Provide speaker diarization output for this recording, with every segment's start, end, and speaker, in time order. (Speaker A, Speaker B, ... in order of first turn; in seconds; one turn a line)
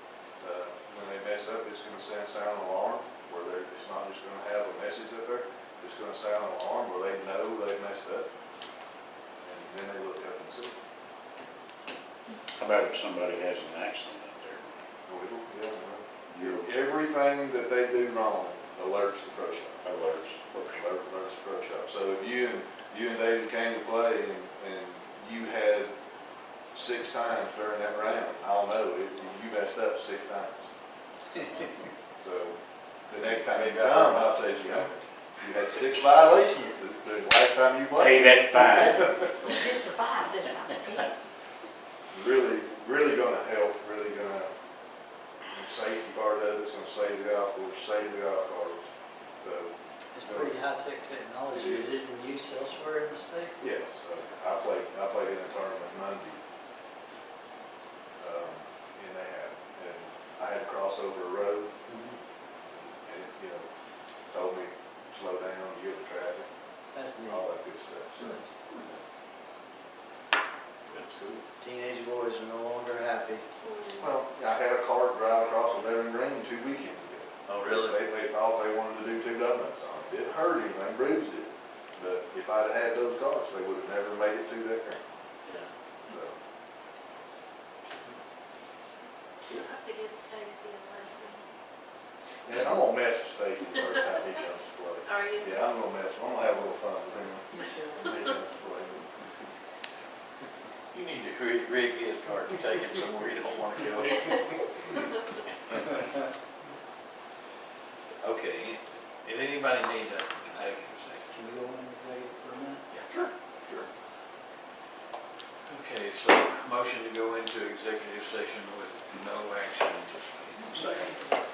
Speaker A: 0.4-8.3
Speaker A: 9.4-10.8
Speaker B: 12.6-14.8
Speaker A: 15.1-19.8
Speaker B: 16.3-16.7
Speaker B: 19.8-20.8
Speaker A: 20.6-25.9
Speaker A: 26.7-30.6
Speaker A: 32.2-32.6
Speaker A: 33.1-39.6
Speaker C: 33.5-35.0
Speaker B: 38.0-39.1
Speaker D: 39.4-41.0
Speaker A: 42.1-44.5
Speaker A: 45.5-48.9
Speaker A: 49.4-50.6
Speaker E: 50.1-53.6
Speaker A: 51.5-51.9
Speaker A: 53.6-56.4
Speaker A: 58.2-61.7
Speaker E: 61.9-62.2
Speaker A: 62.7-63.7
Speaker A: 64.3-66.5
Speaker E: 66.9-67.5
Speaker A: 67.2-68.4
Speaker E: 71.6-73.5
Speaker F: 73.6-74.1
Speaker A: 74.0-85.0
Speaker E: 77.5-78.0
Speaker A: 86.1-86.4
Speaker F: 89.5-91.4
Speaker A: 92.5-99.1
Speaker F: 95.1-95.6
Speaker C: 100.9-105.0
Speaker C: 108.2-111.3
Speaker E: 111.3-112.8
Speaker C: 112.9-113.9
Speaker C: 115.7-121.1
Speaker D: 120.7-121.1